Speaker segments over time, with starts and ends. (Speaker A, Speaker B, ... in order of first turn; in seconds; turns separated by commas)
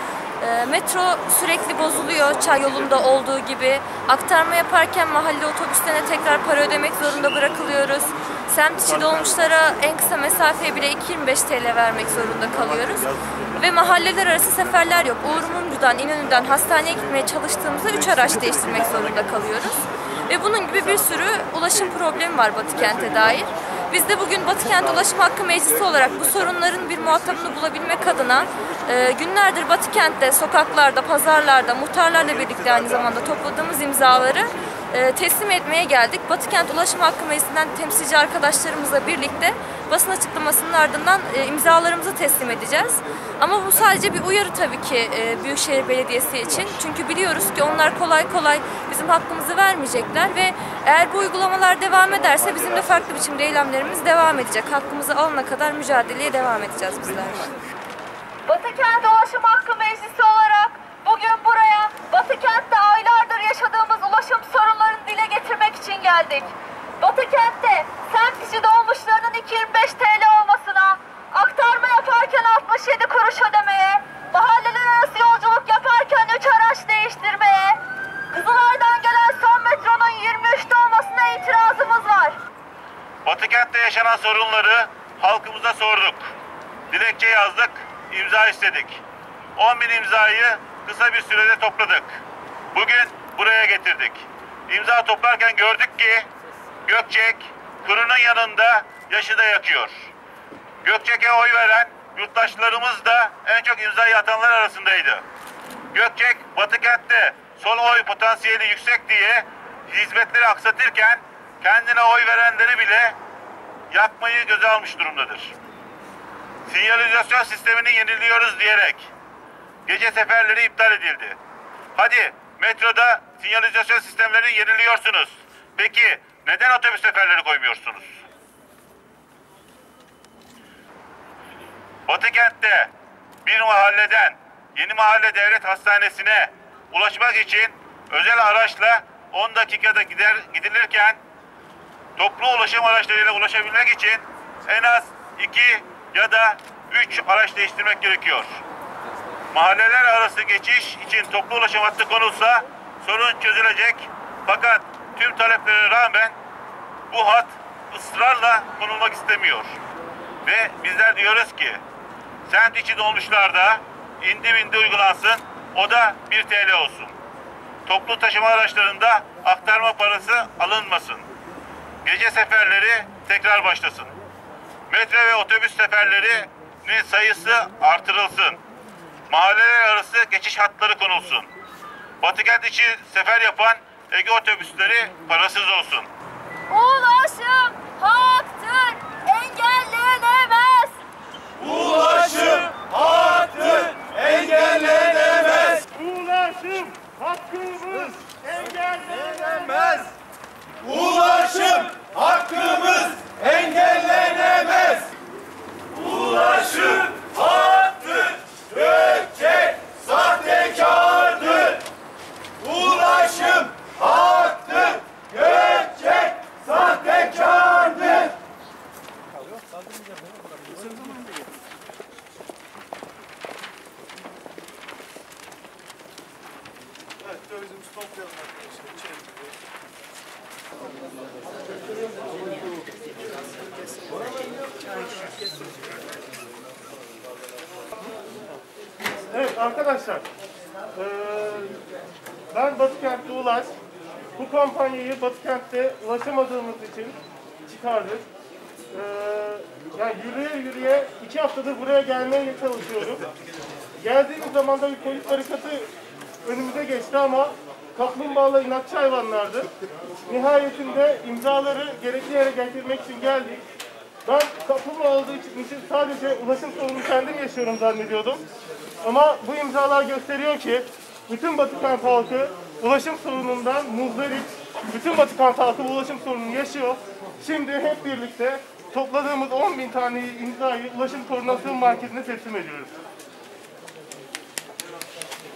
Speaker A: 0.4-57.6, Speaker B: 58.5-60.8, Speaker A: 58.7-77.5, Speaker B: 61.6-62.6, Speaker B: 67.0-77.8, Speaker B: 78.3-82.4, Speaker A: 78.4-79.1, Speaker C: 83.2-86.3, Speaker C: 86.9-89.0, Speaker C: 89.6-92.2, Speaker C: 92.7-96.3, Speaker C: 96.8-100.1, Speaker C: 100.8-105.2, Speaker C: 105.9-113.2, Speaker C: 113.9-115.5, Speaker C: 116.7-119.1, Speaker C: 119.8-121.4, Speaker C: 122.0-128.2, Speaker C: 132.1-132.9, Speaker C: 133.4-141.2, Speaker C: 142.2-148.6, Speaker C: 149.5-156.3, Speaker C: 157.1-159.8, Speaker C: 160.4-161.8, Speaker C: 162.5-167.1, Speaker C: 167.8-171.2, Speaker C: 172.0-174.2, Speaker C: 174.9-178.6, Speaker C: 179.3-181.5, Speaker C: 182.2-186.1, Speaker B: 186.7-191.0, Speaker D: 191.6-195.7, Speaker E: 195.6-200.1, Speaker D: 200.8-205.1, Speaker D: 205.9-208.1, Speaker D: 208.9-211.7, Speaker D: 212.6-218.3, Speaker D: 220.8-221.2, Speaker D: 227.5-229.2, Speaker D: 233.4-235.8, Speaker E: 239.3-240.3, Speaker E: 240.9-241.8, Speaker E: 242.5-243.8, Speaker E: 244.3-248.2, Speaker E: 248.9-253.2, Speaker E: 254.0-255.9, Speaker E: 256.4-259.7, Speaker E: 260.2-263.6, Speaker E: 264.2-268.4, Speaker E: 269.0-282.9